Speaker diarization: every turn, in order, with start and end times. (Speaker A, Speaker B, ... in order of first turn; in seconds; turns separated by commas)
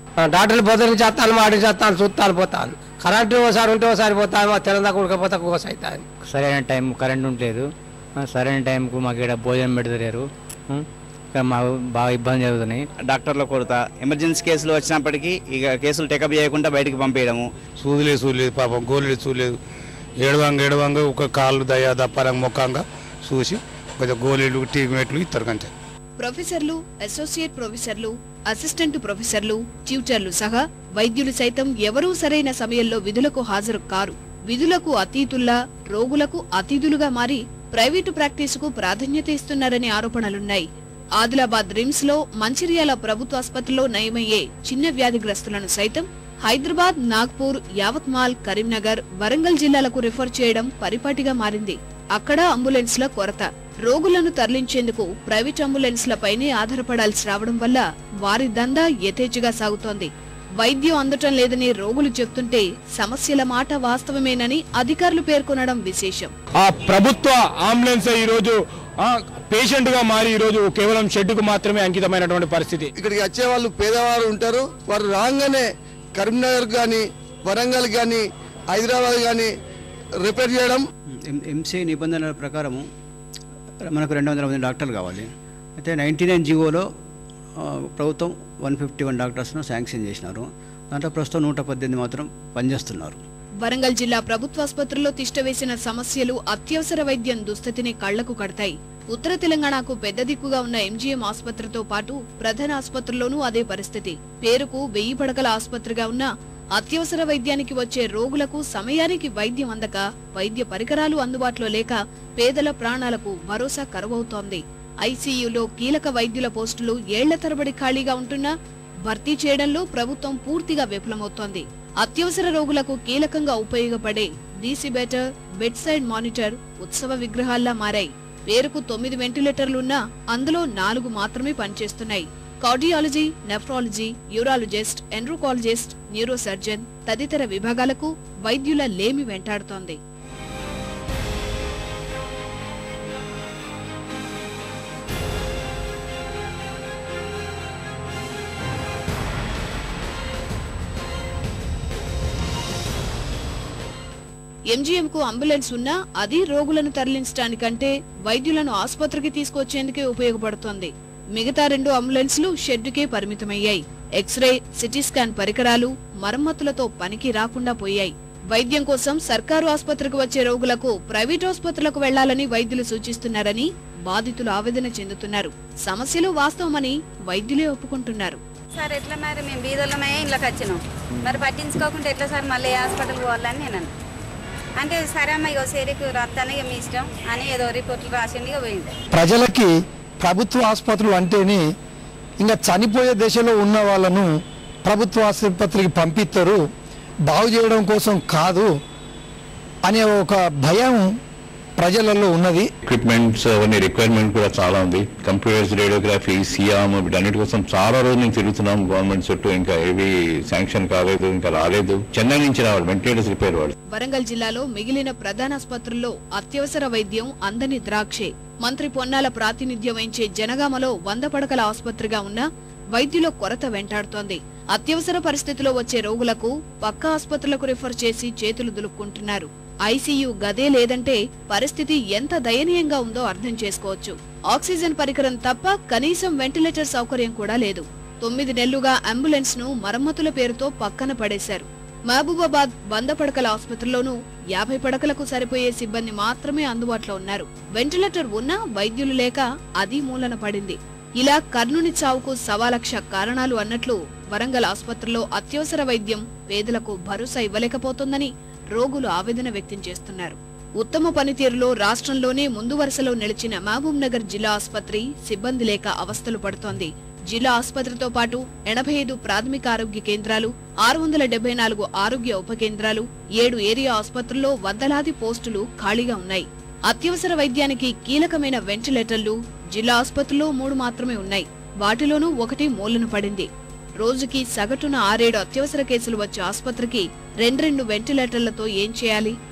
Speaker A: 0.2-6.0, Speaker B: 6.2-12.8, Speaker C: 13.0-17.5, Speaker D: 17.8-19.6, Speaker D: 20.2-25.7, Speaker E: 26.2-40.6, Speaker E: 41.2-66.3, Speaker F: 66.6-72.9, Speaker G: 73.0-78.2, Speaker G: 78.7-79.5, Speaker G: 80.2-80.8, Speaker H: 81.1-82.8, Speaker H: 83.8-86.9, Speaker H: 87.6-93.2, Speaker E: 93.6-118.5, Speaker E: 119.0-140.0, Speaker E: 154.7-178.4, Speaker I: 178.8-183.9, Speaker I: 184.8-188.9, Speaker J: 189.1-191.7, Speaker J: 192.4-194.3, Speaker J: 194.8-196.6, Speaker J: 197.3-198.7, Speaker J: 199.8-201.1, Speaker J: 201.8-202.7, Speaker K: 202.8-213.7, Speaker E: 213.9-283.5, Speaker E: 284.0-289.4